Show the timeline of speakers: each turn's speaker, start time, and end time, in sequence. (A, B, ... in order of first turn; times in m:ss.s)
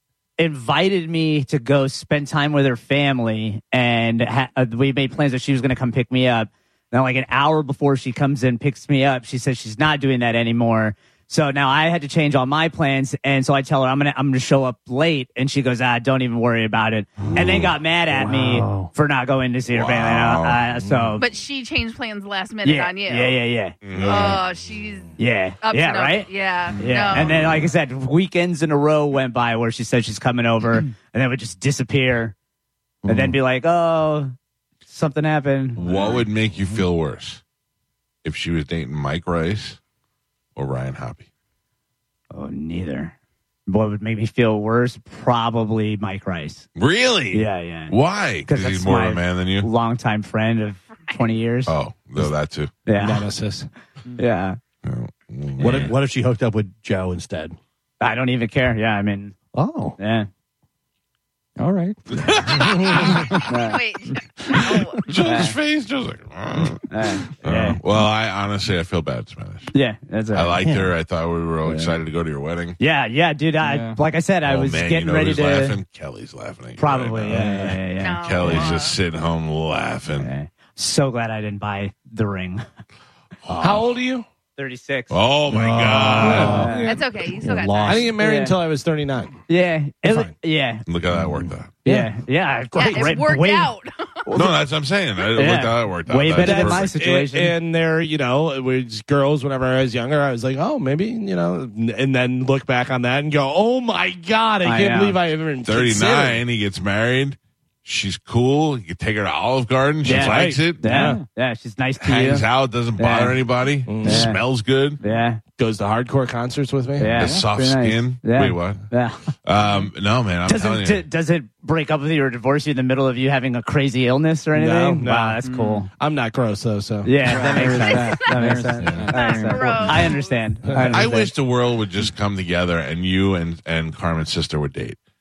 0:00.4-0:21.2 A
0:17.3-0:17.7 B
0:18.1-0:18.9 C
0:19.7-0:20.6 B
0:21.2-0:23.4 D
0:22.6-0:23.8 A
0:23.8-0:24.4 B
0:24.0-0:27.4 D
0:25.2-0:32.4 A
0:27.2-0:27.7 B
0:33.0-0:33.4 C
0:33.1-0:34.3 A
0:34.9-0:36.2 A
0:35.8-0:37.4 B
0:38.2-0:39.8 B
0:40.6-0:41.3 B
0:42.3-0:43.2 A
0:43.7-0:46.7 A
0:46.8-0:49.7 B
0:47.3-0:51.8 A
0:51.7-0:52.7 B
0:52.9-0:53.3 A
0:53.0-0:53.7 E
0:54.2-0:54.6 A
0:54.8-0:56.0 B
0:55.6-0:57.6 C
0:58.0-0:59.4 A
0:59.5-1:00.0 C
1:00.0-1:00.3 A
1:01.6-1:02.5 F
1:02.1-1:03.3 B
1:02.8-1:05.1 D
1:03.5-1:03.8 A
1:04.5-1:09.7 B
1:05.2-1:05.6 A
1:06.9-1:07.8 A
1:09.7-1:10.6 A
1:10.3-1:12.8 B
1:10.6-1:10.9 C
1:11.6-1:12.0 A
1:12.8-1:15.8 A
1:13.6-1:14.0 F
1:14.4-1:20.3 B
1:16.8-1:18.6 A
1:17.3-1:17.6 E
1:17.4-1:17.8 C
1:18.0-1:19.0 D
1:20.2-1:22.6 A
1:23.5-1:23.9 C
1:23.6-1:24.2 E
1:24.6-1:25.1 A
1:25.1-1:26.8 B
1:25.5-1:28.1 C
1:26.2-1:26.6 E
1:26.3-1:26.9 A
1:26.8-1:28.1 D
1:27.8-1:29.4 E
1:28.0-1:28.6 A
1:29.5-1:30.8 A
1:30.0-1:30.3 E
1:30.9-1:31.8 B
1:31.1-1:32.0 C
1:31.8-1:33.7 A
1:32.7-1:34.1 D
1:34.2-1:34.5 A
1:34.3-1:36.9 B
1:35.4-1:37.6 A
1:36.4-1:46.4 E
1:44.6-1:45.2 A
1:45.6-1:50.9 B
1:50.0-1:52.5 A
1:50.1-1:51.2 E
1:50.9-1:51.3 F
1:52.0-1:55.0 B
1:53.0-1:53.4 A
1:53.9-1:54.3 E
1:54.0-1:54.4 A
1:55.0-1:55.4 A
1:55.6-1:57.2 E
1:57.0-1:59.3 A
1:57.1-1:58.9 B
1:57.2-1:57.5 F
1:59.4-2:01.1 B
2:00.5-2:05.9 A
2:04.5-2:07.2 E
2:05.4-2:05.8 F
2:07.0-2:11.3 A
2:07.2-2:10.1 F
2:07.3-2:08.0 C
2:07.4-2:08.5 D
2:08.8-2:09.1 E
2:09.1-2:10.4 D
2:10.9-2:15.0 B